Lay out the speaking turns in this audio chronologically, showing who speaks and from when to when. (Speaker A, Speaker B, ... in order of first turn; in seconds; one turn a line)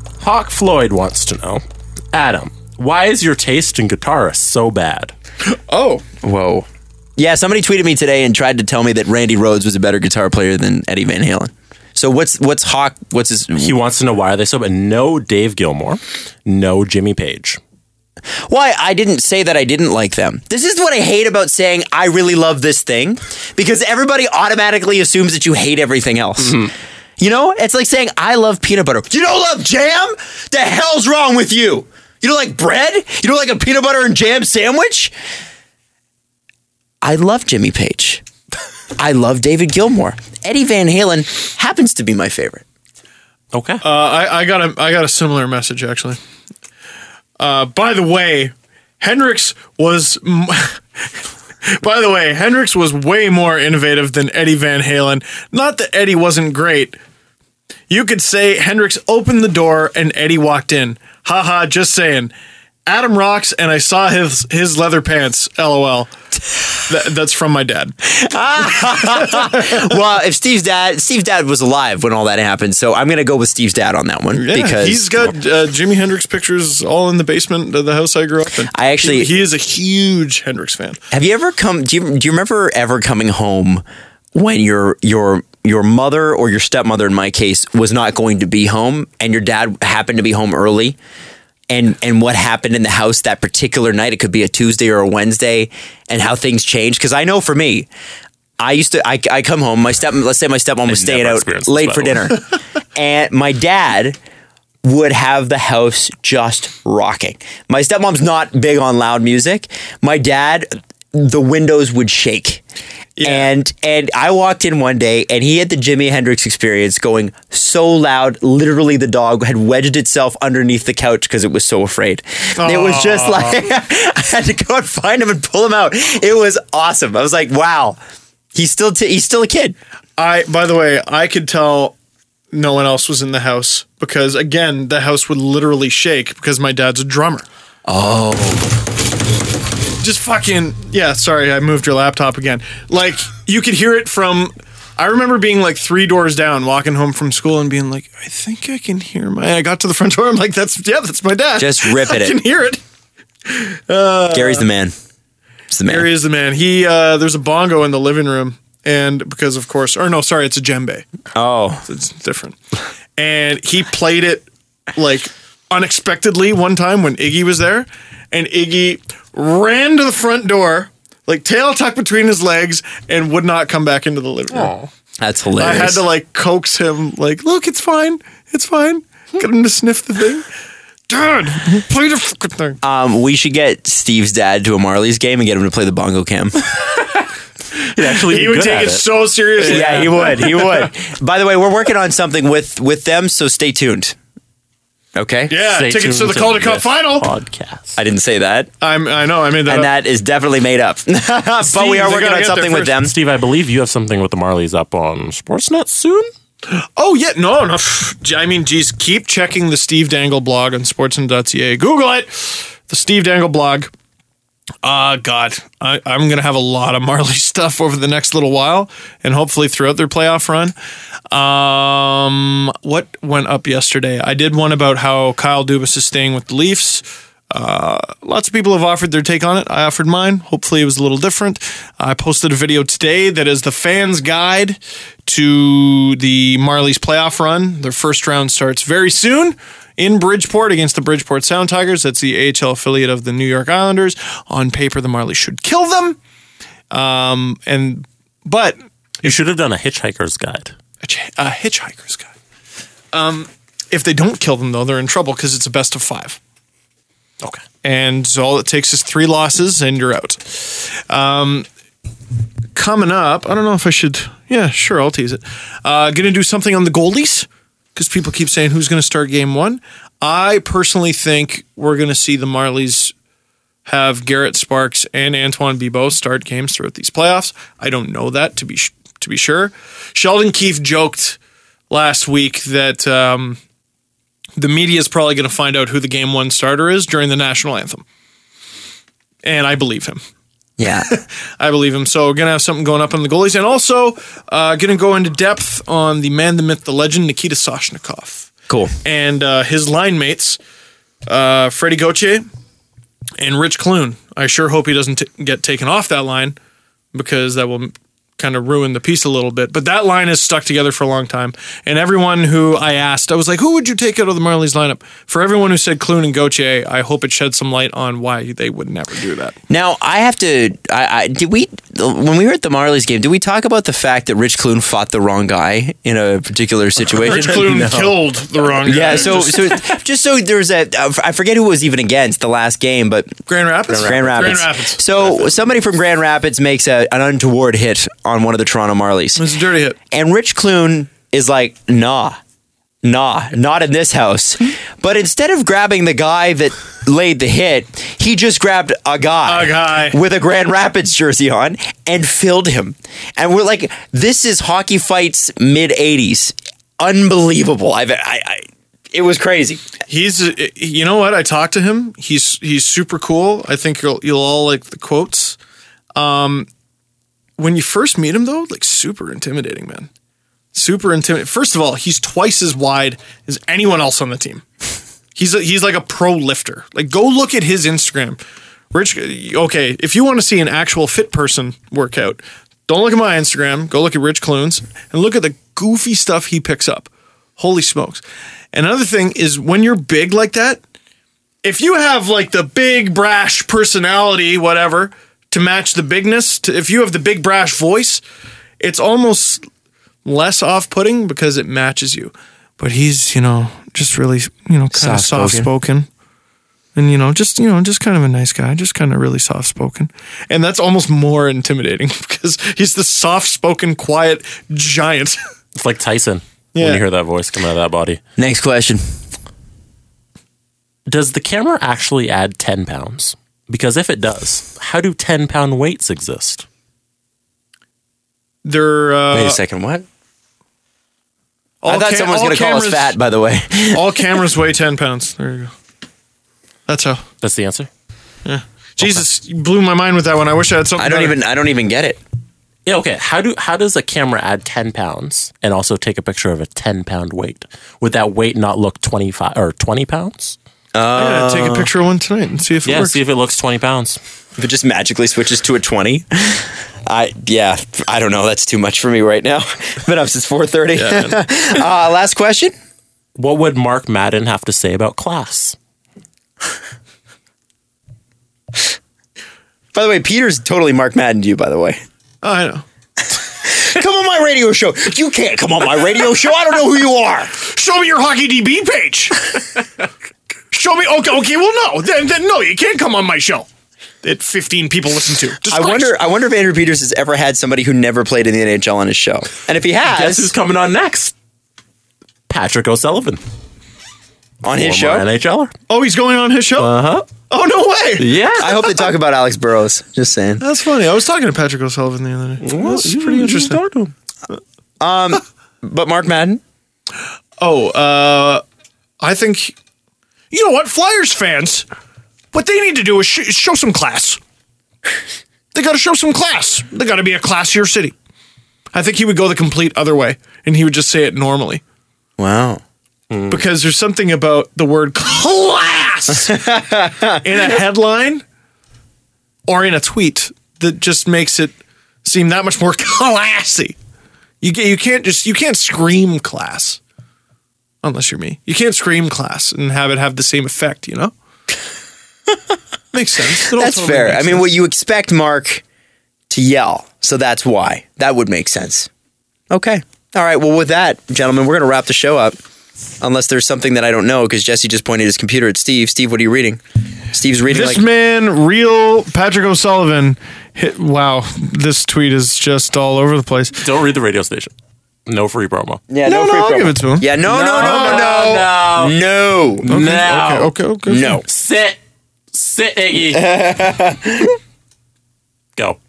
Speaker A: 0.2-5.1
Speaker B: 5.5-6.0
Speaker C: 6.2-13.7
Speaker A: 13.6-17.6
Speaker C: 18.5-35.1
Speaker A: 26.4-26.7
Speaker C: 37.0-38.2
Speaker C: 39.0-42.6
Speaker A: 43.5-43.8
Speaker B: 43.8-46.2
Speaker B: 47.4-51.1
Speaker B: 51.6-57.0
Speaker B: 57.9-62.3
Speaker B: 62.9-66.1
Speaker B: 66.8-67.9
Speaker C: 68.0-75.3
Speaker B: 74.3-81.0
Speaker C: 78.7-79.3
Speaker C: 81.1-83.8
Speaker C: 84.3-91.0
Speaker C: 91.7-97.9
Speaker C: 98.6-104.2
Speaker A: 100.9-102.3
Speaker C: 104.8-112.6
Speaker B: 113.2-113.5
Speaker C: 113.2-128.0
Speaker B: 122.5-123.6
Speaker C: 128.5-129.8
Speaker B: 130.2-131.9
Speaker B: 132.5-137.5
Speaker C: 137.9-138.7
Speaker B: 140.0-152.8
Speaker C: 151.6-152.4
Speaker B: 153.4-154.6
Speaker C: 154.3-154.9
Speaker C: 155.7-156.1
Speaker B: 155.9-161.1
Speaker C: 161.3-161.8
Speaker B: 161.9-162.6
Speaker B: 163.2-174.9
Speaker A: 174.5-174.8
Speaker C: 175.2-176.0
Speaker B: 175.6-180.4
Speaker B: 181.1-182.8
Speaker C: 182.8-186.6
Speaker A: 187.9-190.2
Speaker B: 188.2-190.9
Speaker C: 189.6-194.1
Speaker C: 195.2-195.5
Speaker B: 195.5-197.3
Speaker A: 195.6-198.0
Speaker C: 197.9-198.7
Speaker B: 198.8-199.9
Speaker C: 199.7-203.1
Speaker B: 201.6-202.9
Speaker A: 203.0-206.3
Speaker B: 206.7-213.9
Speaker B: 214.8-220.7
Speaker B: 221.3-246.2
Speaker B: 246.9-249.3
Speaker A: 249.2-250.7
Speaker B: 251.0-252.3
Speaker B: 253.1-256.4
Speaker B: 257.8-261.7
Speaker B: 262.7-273.1
Speaker B: 273.8-281.4
Speaker B: 281.9-283.6
Speaker B: 284.6-288.0
Speaker B: 289.4-290.2
Speaker C: 290.8-291.1
Speaker B: 291.1-298.5
Speaker C: 298.7-298.9
Speaker B: 299.0-300.6
Speaker B: 301.3-302.4
Speaker B: 303.4-306.6
Speaker B: 307.1-319.6
Speaker C: 319.7-327.8
Speaker A: 327.2-328.2
Speaker B: 327.2-329.8
Speaker C: 328.8-333.4
Speaker A: 329.0-329.4
Speaker B: 333.5-335.0
Speaker A: 333.9-334.5
Speaker C: 333.9-339.4
Speaker B: 339.4-340.0
Speaker C: 340.1-342.4
Speaker C: 343.0-359.9
Speaker B: 349.4-350.2
Speaker B: 360.1-365.6
Speaker B: 366.1-366.7
Speaker B: 367.6-370.1
Speaker B: 370.7-374.6
Speaker B: 375.3-378.4
Speaker B: 378.9-390.8
Speaker B: 391.6-398.2
Speaker B: 398.8-399.6
Speaker B: 400.2-406.1
Speaker C: 404.9-405.7
Speaker B: 406.9-415.4
Speaker A: 415.7-418.2
Speaker B: 416.8-417.0
Speaker C: 418.4-419.0
Speaker A: 421.1-426.6
Speaker B: 428.6-429.6
Speaker C: 429.3-430.0
Speaker B: 431.8-433.1
Speaker C: 431.9-434.2
Speaker B: 433.9-435.7
Speaker B: 436.9-437.2
Speaker A: 437.4-437.9
Speaker B: 438.4-441.4
Speaker A: 439.0-439.2
Speaker C: 441.0-442.2
Speaker A: 442.8-450.6
Speaker C: 450.9-451.9
Speaker B: 451.1-453.2
Speaker A: 452.8-454.2
Speaker C: 454.6-462.7
Speaker B: 460.9-461.4
Speaker A: 463.4-465.8
Speaker C: 469.9-472.0
Speaker B: 472.4-472.8
Speaker C: 473.6-477.5
Speaker B: 477.6-479.5
Speaker B: 480.7-483.7
Speaker B: 484.2-486.1
Speaker C: 485.6-490.5
Speaker A: 490.0-491.3
Speaker A: 492.5-493.4
Speaker C: 494.6-495.2
Speaker A: 494.7-495.7
Speaker B: 495.9-498.3
Speaker A: 496.8-497.3
Speaker A: 498.2-498.9
Speaker C: 498.6-500.6
Speaker B: 500.6-503.8
Speaker A: 502.6-504.1
Speaker C: 505.0-506.6
Speaker B: 507.6-508.6
Speaker B: 509.2-509.7
Speaker B: 510.5-511.8
Speaker B: 512.5-514.4
Speaker B: 515.7-518.1
Speaker B: 518.9-521.8
Speaker C: 522.4-522.8
Speaker A: 523.3-523.6
Speaker B: 523.5-526.5
Speaker C: 526.4-527.7
Speaker B: 527.4-528.4
Speaker B: 529.7-534.0
Speaker B: 534.6-537.0
Speaker B: 538.0-541.3
Speaker B: 543.1-544.7
Speaker C: 543.7-545.8
Speaker C: 546.5-549.1
Speaker C: 549.7-552.6
Speaker C: 553.2-556.8
Speaker C: 557.3-558.0
Speaker B: 557.7-563.8
Speaker A: 563.8-564.7
Speaker A: 565.2-566.0
Speaker C: 566.1-569.9
Speaker B: 566.2-568.6
Speaker A: 567.4-569.2
Speaker A: 569.8-572.0
Speaker B: 569.9-571.4
Speaker C: 571.1-571.4
Speaker A: 572.5-573.5
Speaker C: 573.2-574.6